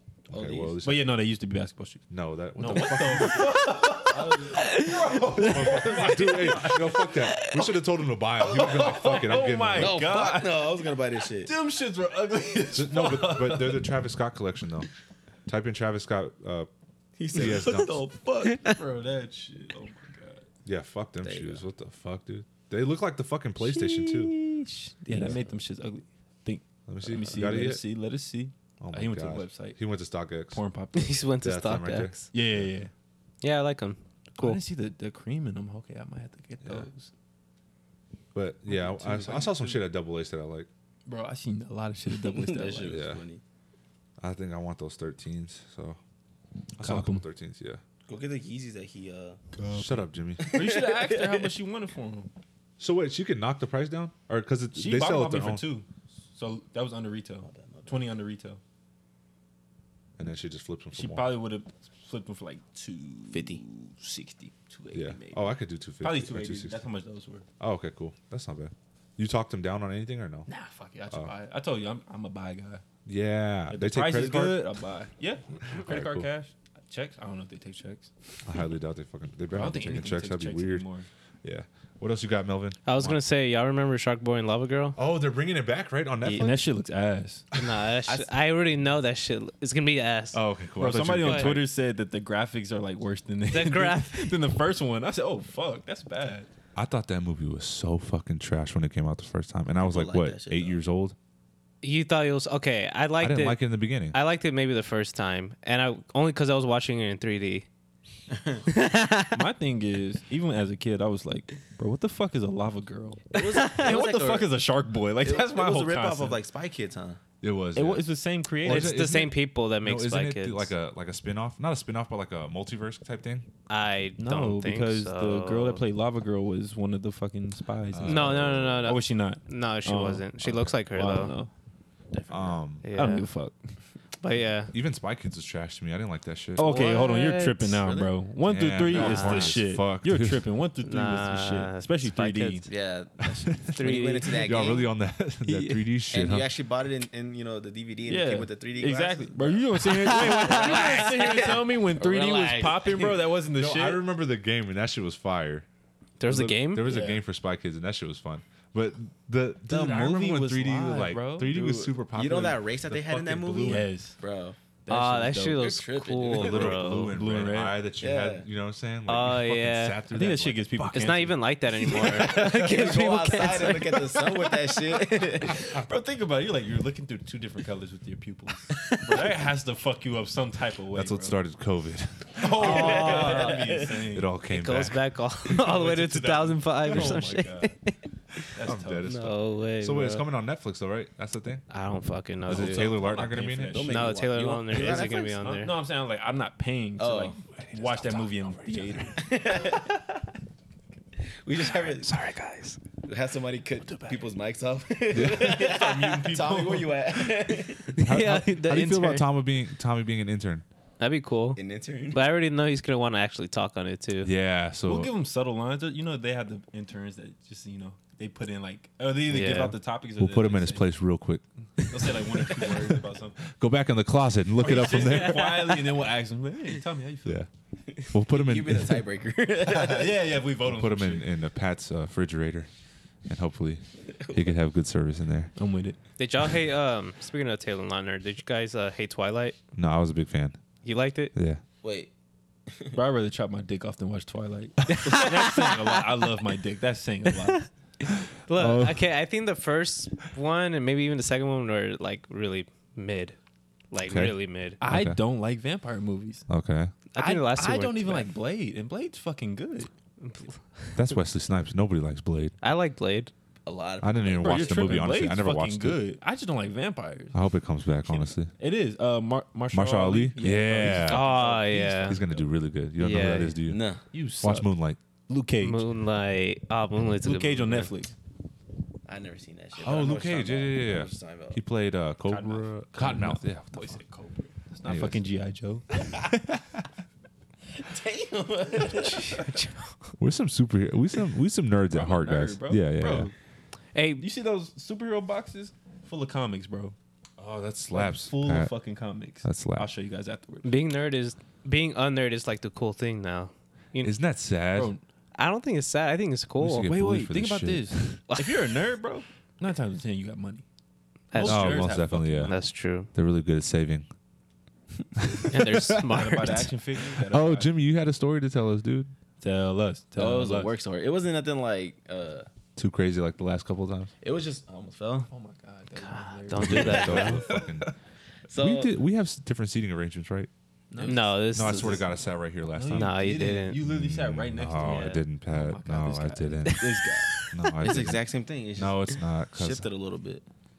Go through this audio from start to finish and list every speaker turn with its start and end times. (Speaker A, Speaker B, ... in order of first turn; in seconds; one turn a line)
Speaker A: 0.3-1.2
Speaker B: 0.3-0.8
Speaker C: 0.8-2.0
Speaker A: 2.1-3.6
Speaker C: 2.5-7.3
Speaker B: 4.1-6.1
Speaker D: 4.5-4.9
Speaker A: 5.3-10.0
Speaker C: 8.4-14.0
Speaker B: 9.7-11.5
Speaker A: 12.7-14.9
Speaker A: 15.5-16.7
Speaker B: 17.2-18.8
Speaker A: 17.3-18.0
Speaker C: 17.4-20.4
Speaker A: 20.6-24.3
Speaker B: 21.2-21.6
Speaker C: 23.6-29.8
Speaker B: 25.1-25.5
Speaker A: 26.9-27.8
Speaker A: 28.8-30.6
Speaker C: 30.5-31.3
Speaker D: 30.9-32.2
Speaker A: 31.4-32.7
Speaker C: 32.3-32.9
Speaker D: 33.4-34.6
Speaker C: 34.4-37.1
Speaker A: 38.3-40.7
Speaker C: 38.7-39.8
Speaker C: 41.0-43.0
Speaker B: 42.1-43.4
Speaker A: 42.9-43.2
Speaker A: 44.2-46.0
Speaker A: 46.8-47.8
Speaker C: 46.8-47.2
Speaker B: 48.1-49.4
Speaker A: 49.6-50.6
Speaker C: 49.6-49.9
Speaker B: 50.4-51.5
Speaker C: 50.5-52.3
Speaker A: 52.8-55.7
Speaker C: 54.8-58.6
Speaker B: 57.4-58.0
Speaker A: 60.2-61.4
Speaker C: 60.9-67.4
Speaker B: 63.3-63.6
Speaker A: 64.9-66.8
Speaker A: 67.6-70.5
Speaker C: 70.5-72.8
Speaker A: 73.0-74.7
Speaker C: 73.7-78.1
Speaker A: 75.7-76.3
Speaker A: 78.4-80.8
Speaker C: 79.5-81.1
Speaker A: 81.4-83.2
Speaker D: 82.8-85.0
Speaker A: 85.0-86.7
Speaker D: 86.2-86.5
Speaker C: 86.4-87.5
Speaker D: 87.5-90.4
Speaker A: 90.3-91.7
Speaker C: 90.8-96.5
Speaker D: 91.2-91.5
Speaker D: 93.5-94.4
Speaker A: 96.8-101.1
Speaker B: 99.8-100.8
Speaker D: 101.8-107.7
Speaker A: 103.2-104.2
Speaker B: 108.3-108.6
Speaker D: 108.7-109.4
Speaker C: 109.3-116.4
Speaker B: 113.3-114.6
Speaker D: 113.3-113.9
Speaker B: 115.2-117.2
Speaker A: 117.4-118.1
Speaker C: 117.7-119.0
Speaker A: 118.6-123.5
Speaker D: 118.6-120.7
Speaker D: 123.7-125.8
Speaker C: 124.2-130.3
Speaker A: 127.9-129.0
Speaker D: 128.0-131.3
Speaker A: 130.4-130.7
Speaker C: 130.9-131.5
Speaker B: 132.1-132.6
Speaker A: 132.3-132.9
Speaker D: 132.8-133.3
Speaker C: 132.9-133.5
Speaker D: 134.2-134.7
Speaker A: 134.7-136.7
Speaker C: 136.6-142.7
Speaker D: 136.6-137.8
Speaker B: 137.8-138.1
Speaker A: 138.4-140.4
Speaker B: 138.9-139.6
Speaker D: 138.9-139.5
Speaker D: 140.8-142.7
Speaker B: 142.7-144.9
Speaker A: 143.4-143.8
Speaker D: 143.7-144.6
Speaker A: 144.4-146.5
Speaker D: 145.4-145.8
Speaker B: 146.1-153.2
Speaker C: 148.1-154.0
Speaker D: 149.8-151.5
Speaker A: 153.5-155.7
Speaker D: 156.2-156.9
Speaker A: 156.2-163.8
Speaker C: 156.8-157.2
Speaker C: 159.7-161.9
Speaker B: 162.1-164.6
Speaker C: 163.6-164.2
Speaker C: 164.8-165.7
Speaker D: 164.9-167.1
Speaker B: 165.6-166.8
Speaker A: 166.3-170.9
Speaker C: 166.9-167.8
Speaker B: 168.0-168.4
Speaker D: 169.1-170.0
Speaker C: 170.1-172.8
Speaker D: 170.9-174.4
Speaker B: 171.8-175.8
Speaker C: 175.4-181.4
Speaker B: 178.9-179.2
Speaker A: 180.9-183.2
Speaker C: 182.4-184.3
Speaker D: 182.5-183.6
Speaker B: 182.5-184.0
Speaker A: 184.1-185.0
Speaker D: 184.5-188.5
Speaker C: 185.4-187.7
Speaker A: 186.9-187.2
Speaker C: 188.5-189.1
Speaker A: 188.6-191.6
Speaker D: 189.0-190.2
Speaker D: 191.7-193.0
Speaker A: 192.4-193.8
Speaker C: 192.4-194.2
Speaker B: 193.6-195.4
Speaker D: 193.9-195.7
Speaker C: 194.7-199.2
Speaker B: 197.0-197.3
Speaker A: 197.6-199.0
Speaker B: 199.1-200.2
Speaker B: 201.4-202.1
Speaker D: 201.6-202.8
Speaker B: 203.0-208.0
Speaker A: 205.1-205.6
Speaker C: 205.2-207.5
Speaker D: 207.9-209.3
Speaker A: 208.0-210.6
Speaker D: 211.0-211.6
Speaker B: 211.6-212.2
Speaker D: 212.1-214.3
Speaker A: 214.2-215.1
Speaker C: 214.8-220.9
Speaker D: 219.3-219.7
Speaker A: 220.2-225.8
Speaker C: 221.8-223.4
Speaker C: 224.6-227.4
Speaker D: 224.7-225.7
Speaker B: 227.9-230.2
Speaker A: 228.1-229.1
Speaker C: 229.6-231.3
Speaker A: 230.6-232.7
Speaker A: 233.2-235.5
Speaker C: 235.6-236.0
Speaker D: 236.2-239.6
Speaker A: 239.7-240.6
Speaker D: 240.8-241.3
Speaker A: 241.3-241.6
Speaker B: 241.8-242.1
Speaker B: 242.7-243.0
Speaker C: 242.9-247.7
Speaker D: 244.9-246.0
Speaker D: 248.4-253.3
Speaker A: 248.5-249.0
Speaker D: 253.9-254.8
Speaker A: 254.0-255.2
Speaker C: 254.8-256.4
Speaker A: 256.5-256.9
Speaker D: 257.1-258.3
Speaker C: 257.2-259.9
Speaker D: 260.2-261.0
Speaker A: 260.9-262.5
Speaker D: 262.6-263.3
Speaker B: 263.6-265.1
Speaker A: 264.0-266.0
Speaker C: 264.4-267.3
Speaker A: 267.3-268.5
Speaker C: 268.6-272.5
Speaker A: 269.7-271.3
Speaker D: 270.9-272.2
Speaker A: 272.1-273.8
Speaker D: 273.0-273.6
Speaker B: 273.6-274.0
Speaker C: 274.1-274.7
Speaker A: 274.4-275.0
Speaker C: 275.3-275.9
Speaker D: 275.6-277.9
Speaker C: 277.2-278.1
Speaker B: 279.1-281.6
Speaker A: 279.8-284.0
Speaker C: 282.2-286.3
Speaker A: 284.8-285.2
Speaker B: 287.7-289.5
Speaker D: 289.1-289.9
Speaker A: 290.2-293.3
Speaker C: 291.9-293.3
Speaker D: 293.9-294.2
Speaker C: 294.2-296.9
Speaker A: 297.4-298.7
Speaker C: 297.9-300.7
Speaker A: 299.4-299.9
Speaker D: 300.6-304.1
Speaker A: 304.0-304.9
Speaker C: 304.7-305.0
Speaker D: 305.3-306.9
Speaker A: 306.6-308.2
Speaker C: 306.9-310.6
Speaker D: 311.3-313.1
Speaker C: 311.3-312.6
Speaker A: 311.4-312.5
Speaker A: 313.1-314.1
Speaker A: 315.2-316.5
Speaker D: 315.5-316.7
Speaker C: 316.0-317.7
Speaker A: 317.1-319.1
Speaker C: 319.4-320.7
Speaker B: 320.2-322.5
Speaker A: 322.8-324.1
Speaker B: 324.2-325.3
Speaker C: 325.3-327.5
Speaker D: 326.0-327.4
Speaker A: 326.6-327.9
Speaker B: 326.7-327.6
Speaker B: 328.5-328.9
Speaker A: 328.6-330.5
Speaker C: 330.9-332.0
Speaker D: 331.0-332.1
Speaker A: 331.5-333.2
Speaker C: 332.7-337.4
Speaker D: 332.9-333.8
Speaker A: 333.8-337.0
Speaker D: 334.8-335.1
Speaker D: 336.7-337.5
Speaker A: 337.5-338.2
Speaker B: 337.8-340.4
Speaker A: 338.8-339.9